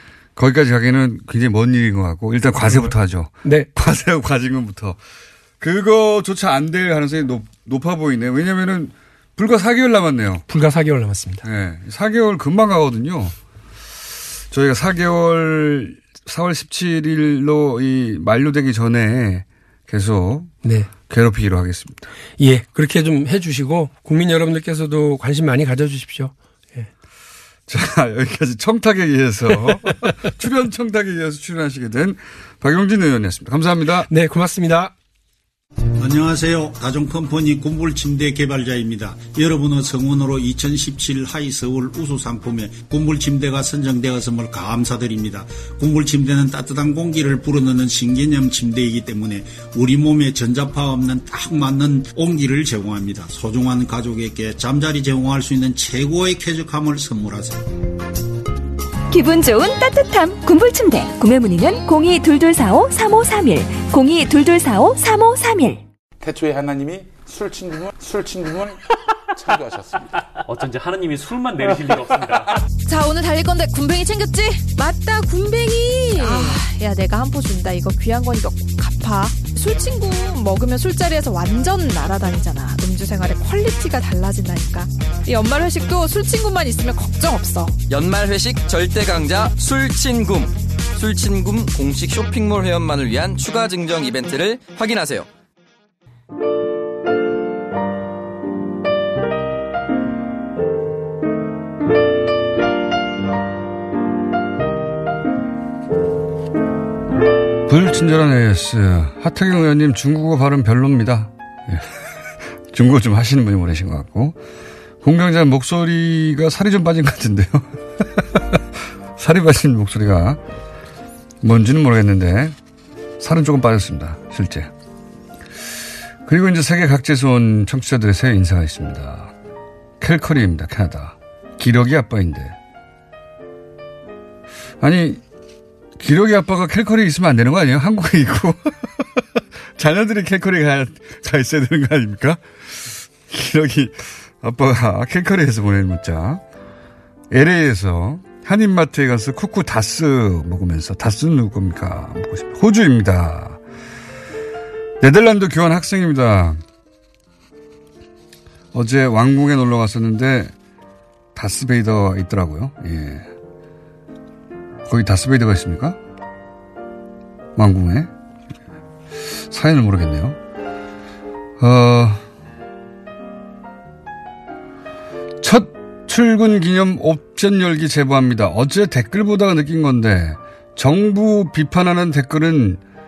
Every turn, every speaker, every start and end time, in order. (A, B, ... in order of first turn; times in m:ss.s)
0:00.4-0:05.0 A
0:02.6-0:03.7 B
0:05.6-0:10.4 A
0:10.5-0:11.4 B
0:11.4-0:13.3 A
0:14.5-0:20.5 A
0:20.6-0:20.9 B
0:21.0-0:22.1 A
0:22.4-0:26.9 B
0:27.7-0:34.1 A
0:34.1-0:34.9 B
0:36.0-0:57.6 C
0:59.1-1:05.8 D
1:06.2-1:08.8 E
1:09.3-1:10.1 E
1:10.4-1:12.5 F
1:12.8-1:27.8 G
1:27.9-1:35.3 H
1:47.7-1:51.8 A
1:52.7-1:54.4 A
1:55.0-1:58.6 A
1:59.2-2:00.4 A
2:01.4-2:02.6 A
2:03.2-2:04.7 A
2:06.2-2:09.3 A
2:10.0-2:12.6 A
2:14.8-2:15.2 A
2:16.0-2:18.7 A
2:19.8-2:26.4 A
2:27.3-2:33.6 A
2:35.0-2:36.6 A
2:38.7-2:40.5 A
2:41.3-2:43.3 A
2:44.8-2:46.0 A
2:47.6-2:48.1 A
2:49.5-2:50.4 A
2:51.6-2:52.2 A
2:55.4-3:02.8 A